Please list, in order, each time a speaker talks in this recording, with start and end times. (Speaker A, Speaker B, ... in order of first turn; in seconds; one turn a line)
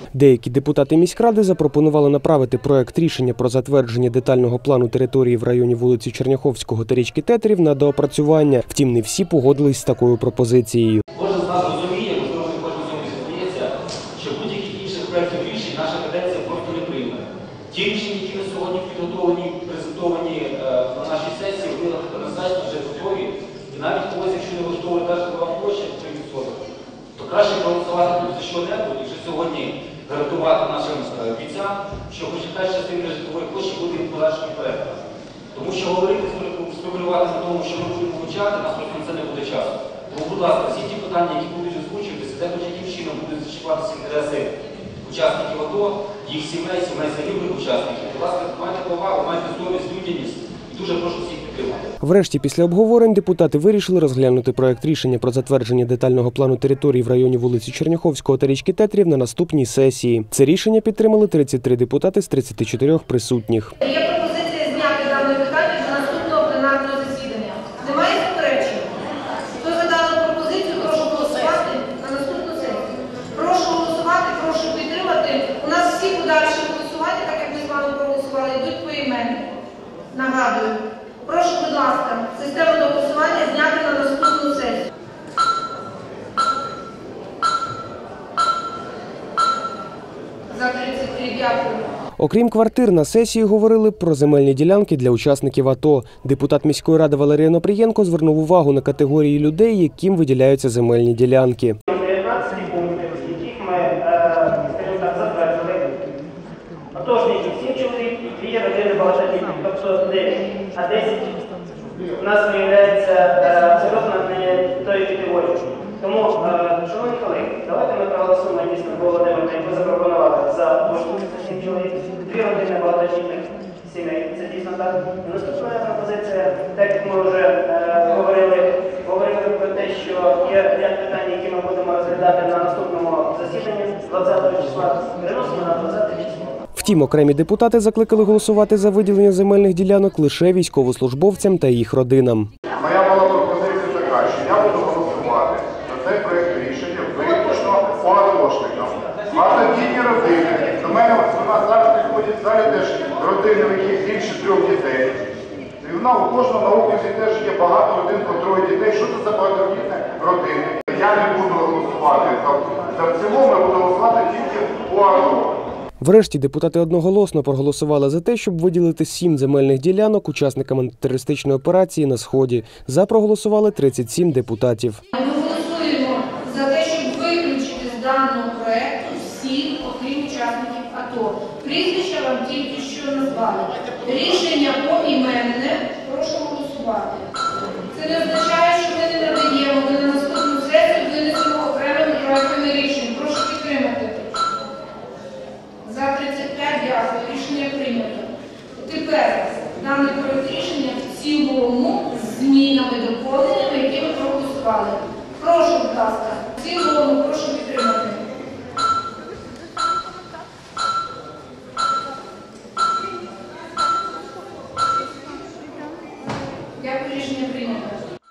Speaker A: 0.1-11.0
Speaker B: 11.1-26.6
Speaker B: 27.2-35.0
Speaker B: 35.5-44.5
Speaker B: 45.0-51.9
Speaker A: 52.0-63.7
Speaker C: 63.8-68.9
Speaker C: 69.6-79.5
Speaker C: 80.1-84.8
Speaker C: 90.5-91.9
Speaker A: 92.2-101.8
Speaker D: 101.9-106.0
Speaker D: 106.9-111.4
Speaker D: 112.2-136.5
Speaker A: 136.8-142.5
Speaker E: 142.8-155.2
Speaker E: 155.8-165.6
Speaker A: 166.0-175.0
Speaker C: 175.1-187.2
Speaker C: 187.9-194.4
Speaker C: 195.8-208.2
Speaker C: 216.8-218.0